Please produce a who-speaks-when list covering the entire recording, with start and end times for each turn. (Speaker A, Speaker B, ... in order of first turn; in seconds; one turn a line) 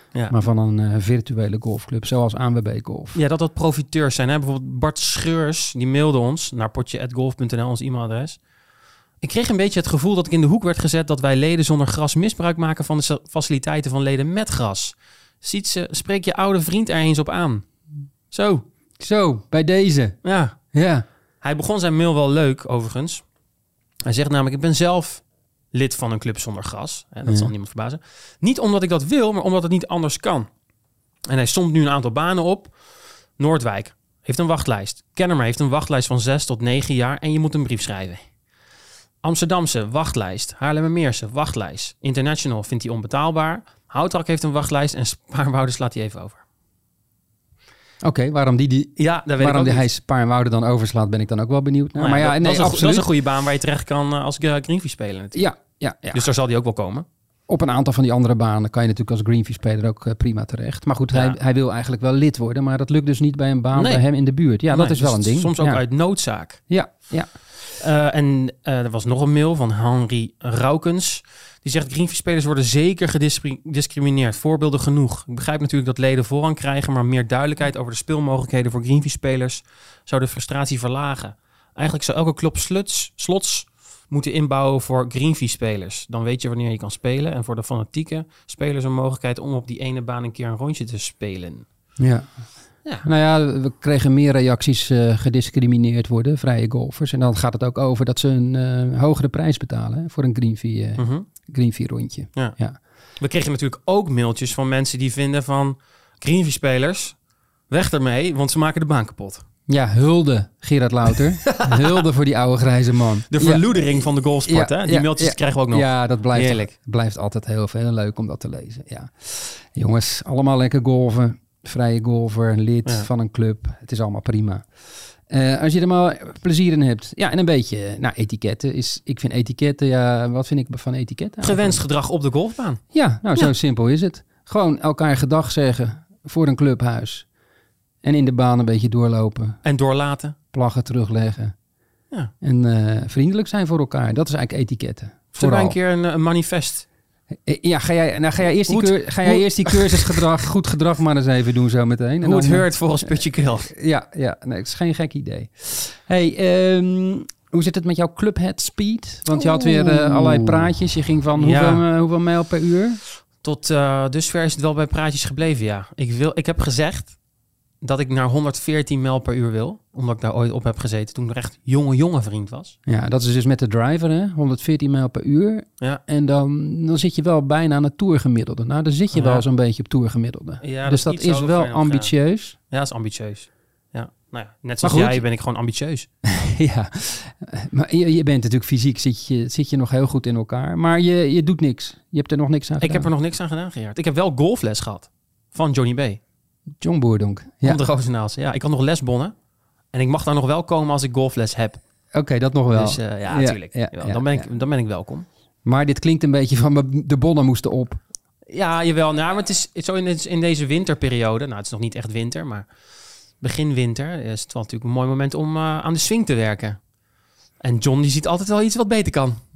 Speaker A: 0.3-3.2
Speaker B: 3.1-8.4
Speaker B: 9.2-17.7
Speaker B: 18.3-18.6
Speaker A: 19.0-20.2
Speaker B: 20.2-20.6
Speaker A: 20.7-21.1
Speaker B: 21.4-23.2
Speaker B: 24.1-30.5
Speaker A: 27.3-27.5
Speaker B: 31.3-32.8
Speaker B: 33.4-38.2
Speaker B: 39.2-46.4
Speaker A: 48.0-53.1
Speaker B: 49.0-49.9
Speaker B: 52.0-55.5
Speaker A: 55.3-56.3
Speaker B: 56.1-57.1
Speaker A: 57.5-65.8
Speaker B: 63.8-64.0
Speaker B: 64.7-66.6
Speaker A: 66.7-67.3
Speaker B: 67.8-91.7
Speaker A: 92.0-92.3
Speaker A: 93.0-102.8
Speaker B: 101.0-101.3
Speaker B: 103.2-107.2
Speaker B: 107.7-109.5
Speaker A: 109.7-124.7
Speaker B: 111.5-111.8
Speaker B: 113.3-116.7
Speaker A: 125.3-131.8
Speaker B: 131.4-132.8
Speaker A: 132.9-137.2
Speaker A: 138.0-139.6
Speaker B: 139.6-140.4
Speaker A: 140.5-141.6
Speaker A: 142.4-145.8
Speaker B: 145.3-146.9
Speaker A: 147.4-163.0
Speaker B: 148.7-150.2
Speaker B: 152.2-153.7
Speaker B: 159.3-160.7
Speaker B: 161.3-161.8
Speaker B: 163.4-167.2
Speaker B: 167.8-172.8
Speaker A: 172.9-182.6
Speaker B: 179.1-179.4
Speaker B: 180.6-182.1
Speaker B: 182.7-186.1
Speaker A: 184.8-185.2
Speaker A: 186.2-193.1
Speaker B: 192.8-196.2
Speaker A: 196.8-197.8
Speaker B: 197.6-199.3
Speaker B: 199.9-201.8
Speaker A: 202.1-204.5
Speaker B: 202.8-205.3
Speaker A: 205.7-208.0
Speaker B: 208.5-212.7
Speaker B: 213.4-216.8
Speaker B: 217.6-219.4